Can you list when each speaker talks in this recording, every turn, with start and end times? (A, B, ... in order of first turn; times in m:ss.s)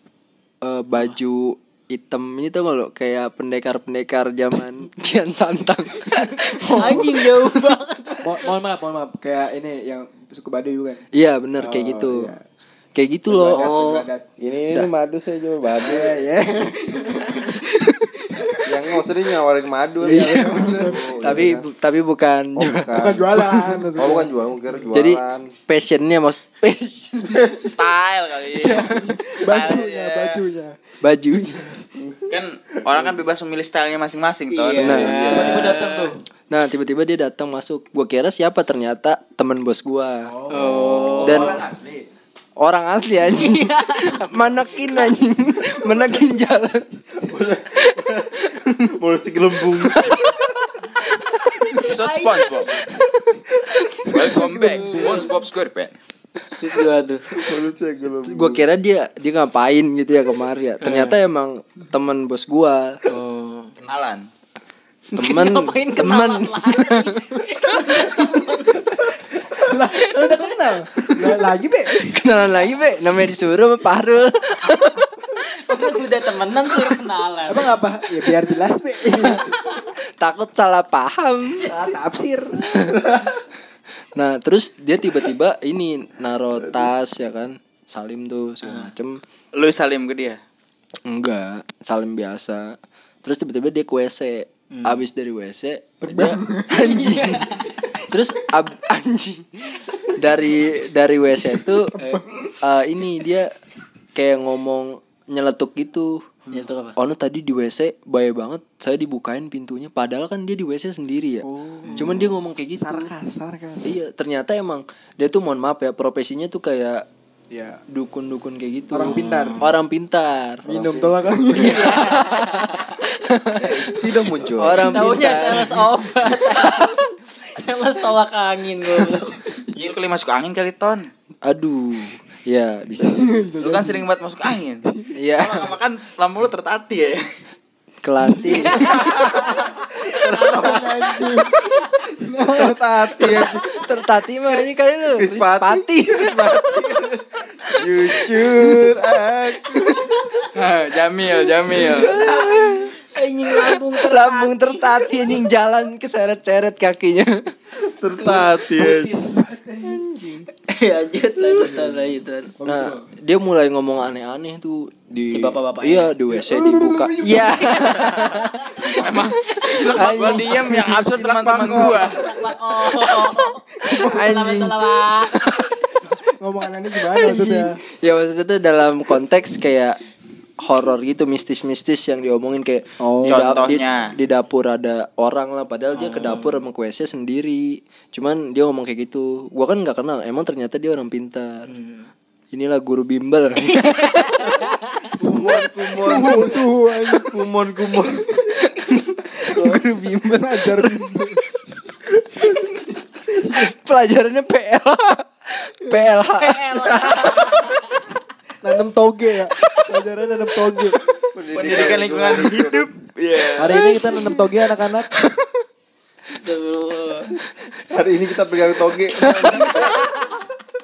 0:00.6-0:07.6 A
0:06.6-0:07.2 B
0:06.7-0:08.4 C
0:08.2-0:11.1 B
0:11.1-0:12.3 A
0:11.6-0:12.4 B
0:13.0-0:13.7 A
0:13.3-0:14.3 B
0:13.6-0:14.1 C
0:14.4-0:16.2 D
0:15.8-0:19.0 B
0:18.7-0:21.7 D
0:20.0-0:21.5 B
0:20.0-0:23.0 A
0:22.6-0:23.3 D
0:23.0-0:24.3 B
0:23.5-0:23.8 A
0:24.0-0:25.5 D
0:24.9-0:27.4 A
0:27.2-0:27.8 D
0:27.8-0:28.9 E
0:28.5-0:31.0 B
0:29.4-0:30.4 E
0:31.0-0:31.6 A
0:31.6-0:31.8 B
0:32.0-0:32.3 D
0:32.3-0:34.9 E
0:34.5-0:36.1 C
0:34.8-0:35.6 D
0:34.8-0:35.4 A
0:35.3-0:36.2 B
0:36.5-0:40.3 A
0:40.2-0:42.1 B
0:40.5-0:41.6 C
0:40.7-0:41.0 D
0:41.2-0:41.6 A
0:42.6-0:46.9 A
0:43.3-0:44.2 C
0:47.2-0:48.4 D
0:47.8-0:48.8 A
0:49.0-0:50.2 D
0:50.0-0:52.9 C
0:51.8-0:52.8 E
0:54.1-0:55.3 B
0:54.1-0:55.9 E
0:54.7-0:55.3 C
0:56.6-0:57.4 C
0:57.4-0:58.6 D
0:58.3-1:03.0 A
1:00.8-1:01.2 C
1:03.1-1:03.8 C
1:03.8-1:04.3 E
1:05.1-1:09.1 C
1:05.2-1:07.1 A
1:09.3-1:12.4 B
1:10.0-1:10.4 C
1:12.0-1:15.1 A
1:15.4-1:17.8 C
1:17.5-1:19.6 B
1:19.9-1:21.7 A
1:21.6-1:23.0 B
1:24.2-1:29.2 A
1:28.6-1:28.9 C
1:29.6-1:30.4 E
1:31.1-1:37.5 A
1:34.7-1:35.0 C
1:36.0-1:36.9 B
1:36.8-1:38.0 C
1:38.0-1:41.9 A
1:41.5-1:42.6 B
1:41.9-1:42.2 C
1:42.6-1:43.5 A
1:44.2-1:46.3 A
1:46.5-1:47.0 C
1:47.0-1:51.5 A
1:51.4-1:54.0 B
1:52.0-1:53.1 A
1:53.8-1:57.0 A
1:57.5-1:57.8 B
1:57.9-2:00.6 A
1:58.9-1:59.7 B
1:59.0-1:59.7 C
2:00.7-2:01.1 D
2:00.7-2:02.2 B
2:01.5-2:03.2 C
2:01.7-2:03.9 A
2:03.6-2:05.6 D
2:04.6-2:05.9 A
2:04.8-2:09.4 C
2:06.4-2:07.0 A
2:09.7-2:11.1 E
2:11.4-2:13.3 A
2:13.0-2:14.1 B
2:13.6-2:14.9 E
2:14.9-2:15.2 B
2:15.2-2:15.7 A
2:15.4-2:17.2 E
2:18.0-2:19.0 A
2:18.2-2:18.8 B
2:18.4-2:19.8 C
2:19.0-2:19.6 D
2:20.1-2:21.2 D
2:20.3-2:20.9 C
2:20.4-2:23.8 B
2:22.6-2:23.6 D
2:23.7-2:26.8 A
2:25.1-2:30.1 D
2:30.5-2:32.1 E
2:31.8-2:33.0 A
2:31.8-2:32.7 B
2:32.0-2:35.4 C
2:33.5-2:37.6 A
2:38.0-2:39.1 D
2:38.2-2:40.5 B
2:40.7-2:42.5 C
2:41.5-2:41.9 B
2:42.6-2:43.1 B
2:42.6-2:48.6 A
2:45.2-2:46.1 C
2:46.3-2:48.1 B
2:47.6-2:50.4 C
2:48.8-2:52.3 E
2:49.8-2:51.0 A
2:51.0-2:52.3 D
2:51.8-2:55.5 C
2:53.8-2:54.2 B
2:53.9-2:55.9 A
2:56.0-2:57.8 B
2:57.0-3:00.0 A
3:00.6-3:11.7 A
3:03.0-3:03.6 B
3:03.2-3:04.1 E
3:05.9-3:06.6 C
3:11.7-3:12.1 C
3:12.5-3:14.8 A
3:13.7-3:15.1 C
3:15.1-3:18.3 D
3:15.2-3:17.4 B
3:18.1-3:18.6 B
3:18.6-3:21.2 A
3:19.4-3:21.4 B
3:23.3-3:27.5 A
3:23.4-3:23.7 B
3:26.3-3:28.0 C
3:28.6-3:31.0 B
3:29.6-3:29.9 C
3:31.3-3:32.9 D
3:31.5-3:34.0 E
3:33.6-3:35.3 B
3:33.8-3:34.4 A
3:35.2-3:35.5 A
3:36.3-3:37.4 C
3:37.9-3:40.0 D
3:39.3-3:39.7 A
3:39.6-3:40.3 C